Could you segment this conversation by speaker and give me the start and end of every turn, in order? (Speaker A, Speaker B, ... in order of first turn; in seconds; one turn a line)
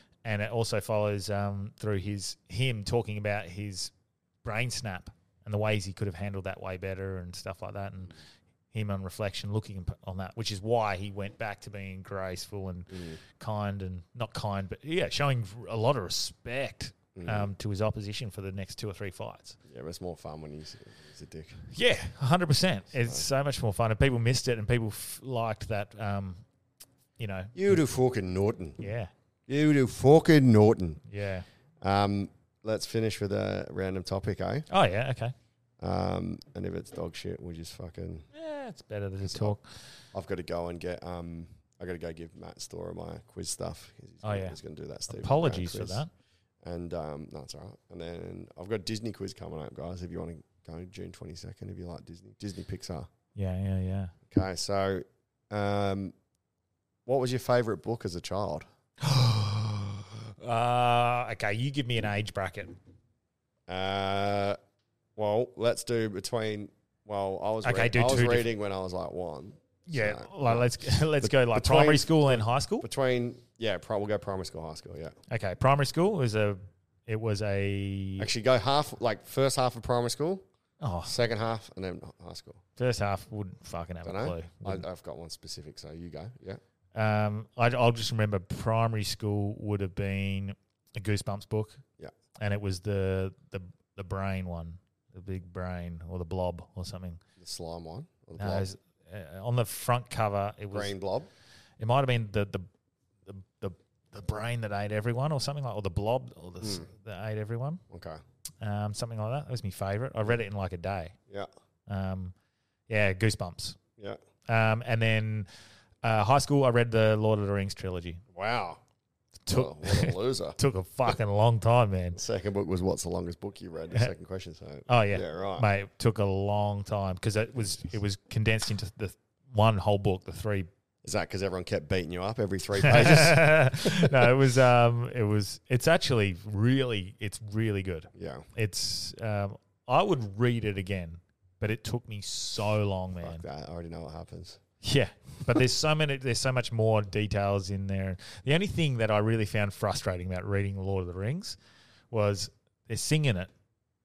Speaker A: 0.2-3.9
Speaker A: 4.4-8.1
Speaker A: 8.7-19.6
Speaker B: 12.9-13.2
Speaker B: 17.1-17.5
Speaker B: 19.7-21.6
Speaker A: 21.6-26.4
Speaker A: 27.2-27.8
Speaker B: 27.5-28.8
Speaker A: 28.8-29.1
Speaker B: 29.5-31.0
Speaker A: 31.1-31.4
Speaker B: 31.8-34.6
Speaker A: 34.7-35.3
Speaker B: 35.8-38.3
Speaker A: 38.3-39.6
Speaker B: 39.2-39.5
Speaker B: 40.1-46.0
Speaker A: 44.2-44.6
Speaker A: 45.1-46.1
Speaker B: 46.6-53.1
Speaker A: 53.3-54.1
Speaker B: 54.3-56.1
Speaker B: 57.0-58.6
Speaker A: 59.0-62.8
Speaker B: 63.7-64.6
Speaker B: 65.2-75.2
Speaker A: 67.6-68.5
Speaker A: 69.9-72.8
Speaker A: 75.3-78.3
Speaker B: 78.2-80.4
Speaker A: 80.8-81.1
Speaker B: 81.0-82.6
Speaker A: 82.8-84.8
Speaker B: 84.0-86.6
Speaker A: 86.9-91.8
Speaker A: 92.4-97.2
Speaker B: 97.4-98.7
Speaker A: 98.4-100.9
Speaker B: 100.7-101.3
Speaker A: 101.8-102.7
Speaker A: 103.2-107.8
Speaker B: 106.6-106.9
Speaker B: 107.9-108.2
Speaker A: 108.6-111.1
Speaker A: 111.9-112.3
Speaker A: 112.9-113.8
Speaker A: 114.5-115.5
Speaker A: 116.0-118.2
Speaker B: 118.3-118.8
Speaker A: 119.5-122.2
Speaker B: 119.5-120.6
Speaker B: 122.1-125.7
Speaker A: 124.9-130.7
Speaker B: 131.0-134.2
Speaker A: 132.8-143.4
Speaker B: 138.1-138.4
Speaker B: 143.2-144.6
Speaker A: 144.8-151.6
Speaker A: 152.1-153.5